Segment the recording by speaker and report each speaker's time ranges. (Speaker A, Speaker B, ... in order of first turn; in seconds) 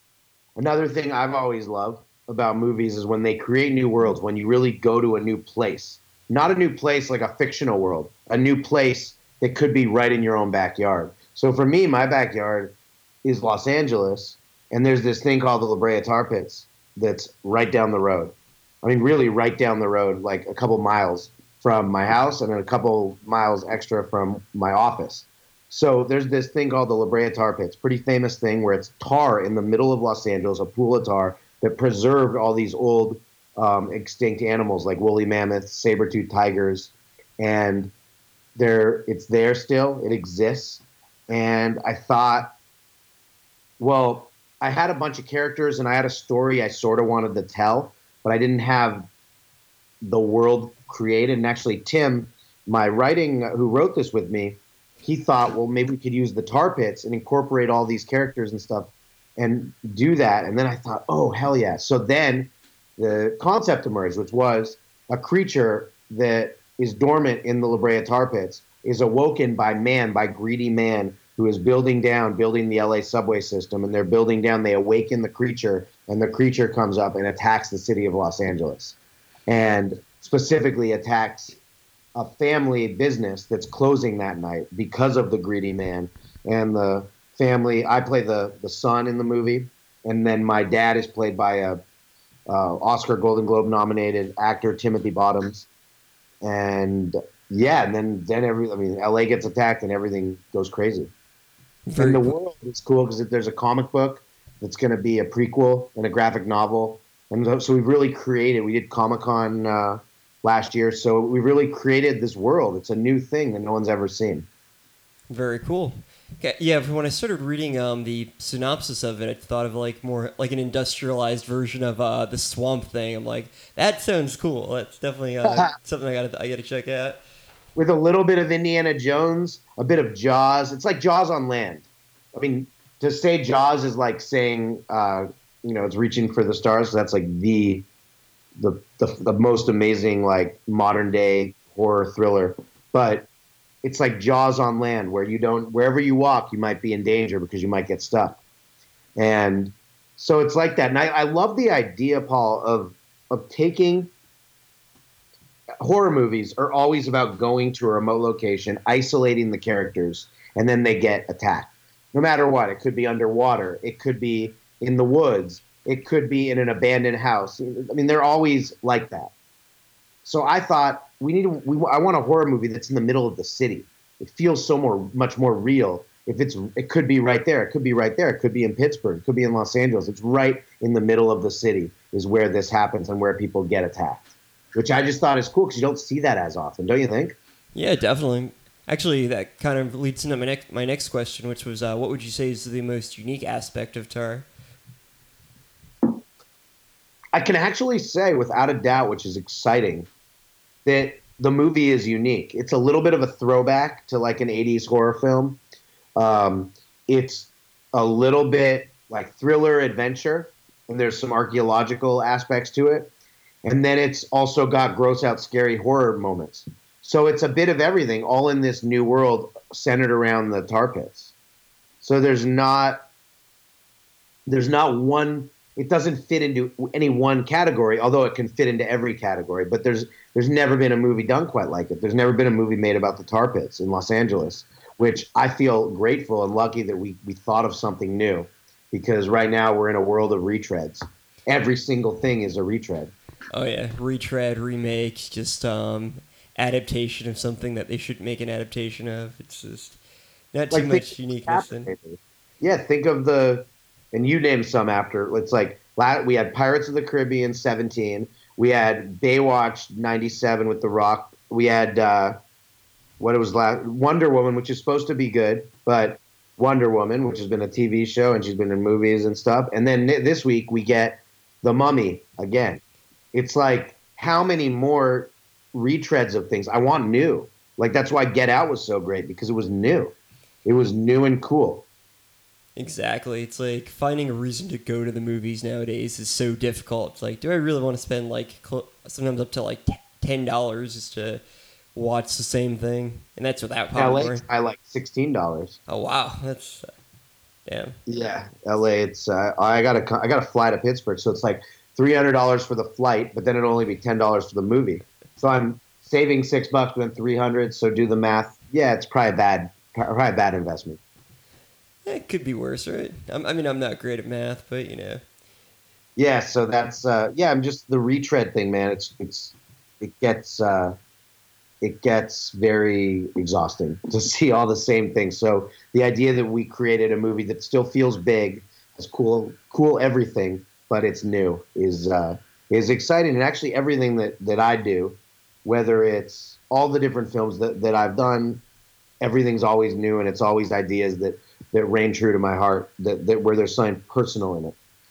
Speaker A: 0.6-37.9, 38.6-42.5, 43.8-49.1, 50.0-79.0, 79.5-81.6, 82.2-91.8, 92.5-95.7, 96.4-101.1, 102.0-114.5, 125.5-125.7, 127.8-137.9, 138.6-143.3, 143.8-148.4, 149.2-154.1, 155.8-169.3, 170.2-187.4, 197.3-200.1, 200.8-205.6, 206.2-213.1, 213.6-221.3, 222.0-223.0, 224.5-243.1, 250.7-262.4, 263.2-272.8, 273.3-280.1, 280.6-281.9, 293.9-295.8, 298.1-311.0, 316.2-320.9, 321.8-338.6, 339.2-344.8
Speaker B: 101.9-102.4, 115.3-127.2, 187.7-194.5, 243.5-250.0, 250.5-251.9, 282.8-291.4, 291.9-294.4, 295.9-296.9, 297.7-298.0, 312.1-315.2